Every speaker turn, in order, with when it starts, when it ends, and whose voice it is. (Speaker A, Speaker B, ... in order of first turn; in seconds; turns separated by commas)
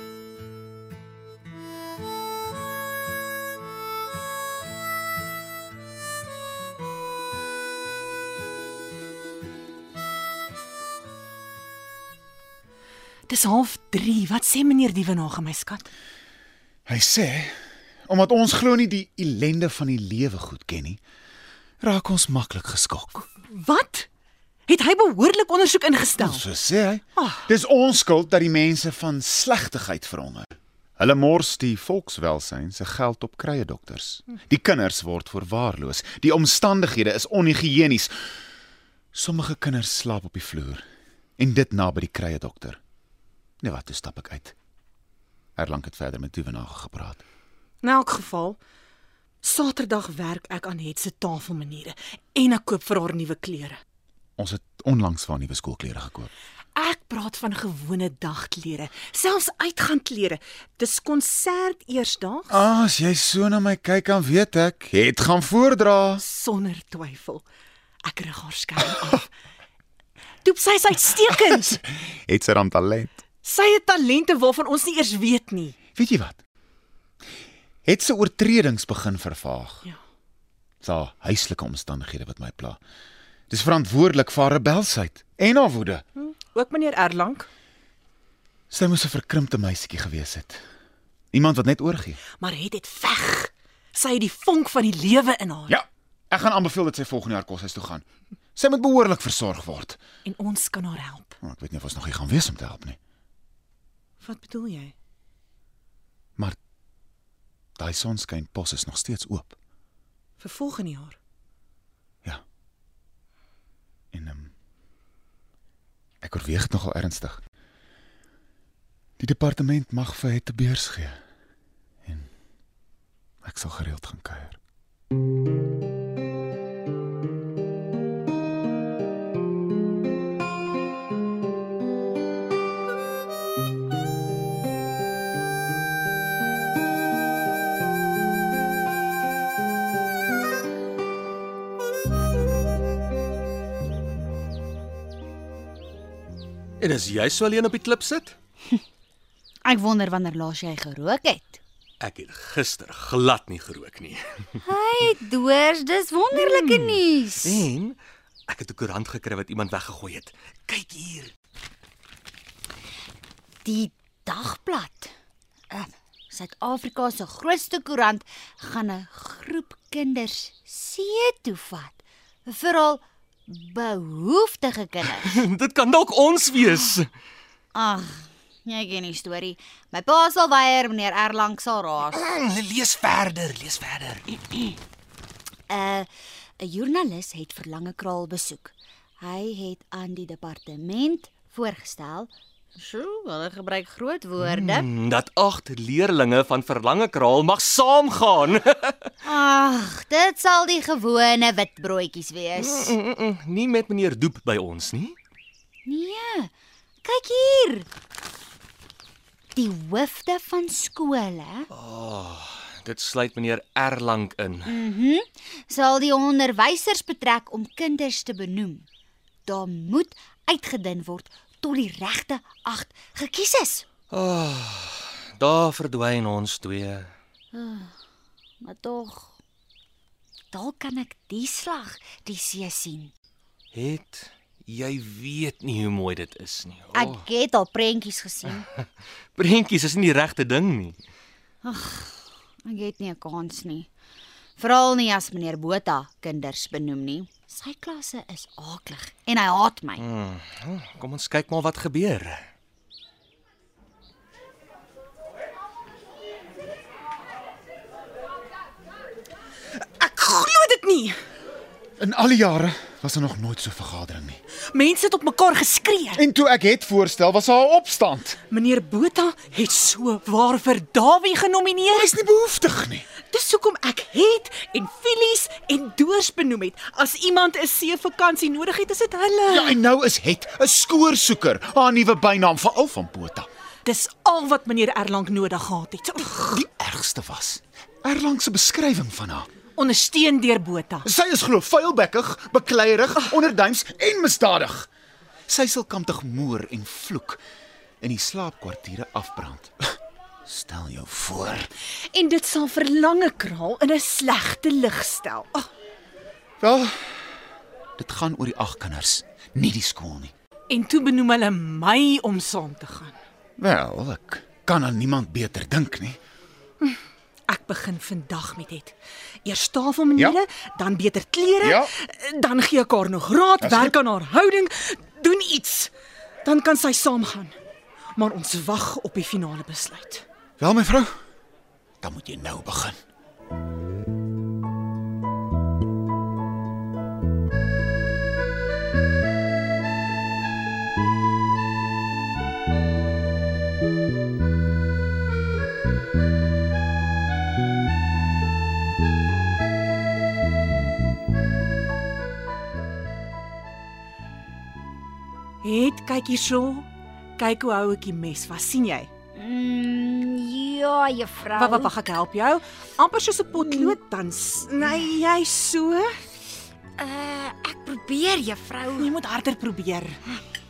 Speaker A: 13.3-15.9, Speaker B: 16.9-21.0, Speaker B: 21.8-23.3, Speaker A: 23.4-24.1, Speaker A: 24.7-26.4, Speaker B: 26.2-38.1, Speaker A: 27.2-27.4, Speaker B: 39.1-40.8, Speaker B: 41.4-42.8, Speaker B: 43.6-44.5, Speaker B: 45.6-47.2, Speaker A: 47.8-48.6, Speaker A: 49.4-53.8, Speaker B: 54.4-56.3, Speaker A: 56.8-62.6, Speaker B: 62.5-66.2, Speaker A: 66.2-67.4, Speaker A: 68.0-69.3, Speaker A: 70.4-71.8, Speaker B: 71.7-73.2, Speaker A: 73.4-75.8, Speaker B: 76.0-76.4, Speaker B: 77.9-79.8, Speaker B: 80.8-82.8, Speaker B: 83.5-86.0, Speaker A: 86.2-87.5, Speaker B: 88.7-90.6, Speaker B: 91.3-92.2, Speaker A: 92.4-95.7, Speaker B: 95.7-98.0, Speaker B: 98.6-100.0, Speaker A: 100.2-101.3, Speaker B: 101.4-103.0, Speaker A: 104.2-104.9, Speaker B: 107.8-109.6, Speaker A: 110.4-111.2, Speaker B: 114.1-114.5, Speaker B: 116.2-117.4, Speaker B: 119.2-121.2, Speaker B: 122.0-122.3, Speaker B: 123.4-124.6, Speaker C: 146.8-148.4, Speaker D: 149.7-151.6, Speaker C: 152.0-154.3, Speaker D: 154.6-157.7, Speaker C: 156.3-158.0, Speaker C: 158.5-161.3, Speaker D: 163.7-165.1, Speaker D: 165.7-175.5, Speaker C: 175.1-177.1, Speaker D: 177.7-182.3, Speaker C: 182.1-184.4, Speaker D: 185.7-186.1, Speaker D: 186.6-194.9, Speaker C: 194.4-199.0, Speaker D: 199.2-203.0, Speaker C: 202.6-205.2, Speaker D: 205.9-206.5, Speaker D: 207.0-207.9, Speaker D: 209.6-211.7, Speaker C: 211.7-214.8, Speaker D: 214.7-218.9, Speaker D: 219.5-223.9, Speaker C: 224.1-227.1, Speaker D: 227.5-227.9, Speaker D: 228.6-229.4, Speaker D: 230.5-233.1, Speaker C: 233.7-237.2, Speaker D: 236.9-238.7, Speaker C: 239.3-241.0, Speaker D: 241.6-243.9, Speaker D: 244.6-250.0, Speaker C: 250.0-252.5, Speaker A: 259.8-261.1, Speaker B: 262.0-264.4, Speaker A: 264.7-266.2, Speaker B: 266.2-268.4, Speaker A: 268.5-272.2, Speaker B: 271.9-273.1, Speaker A: 273.3-279.8, Speaker B: 279.5-283.5, Speaker A: 283.9-286.5, Speaker B: 286.5-289.5, Speaker A: 289.8-291.1, Speaker B: 291.0-294.9, Speaker B: 295.5-297.4, Speaker B: 298.0-301.7, Speaker A: 302.0-305.7, Speaker B: 306.6-307.2, Speaker B: 308.0-310.3, Speaker A: 310.7-313.1, Speaker B: 313.6-316.2, Speaker A: 317.5-325.9, Speaker B: 321.6-321.9, Speaker B: 323.6-323.9, Speaker A: 326.4-327.5, Speaker A: 328.2-330.2, Speaker B: 330.6-331.1, Speaker B: 332.0-333.0, Speaker A: 355.6-356.9, Speaker A: 357.4-359.1, Speaker D: 359.4-361.9, Speaker A: 361.6-366.2, Speaker D: 363.6-364.0, Speaker D: 367.0-369.1, Speaker A: 368.9-370.2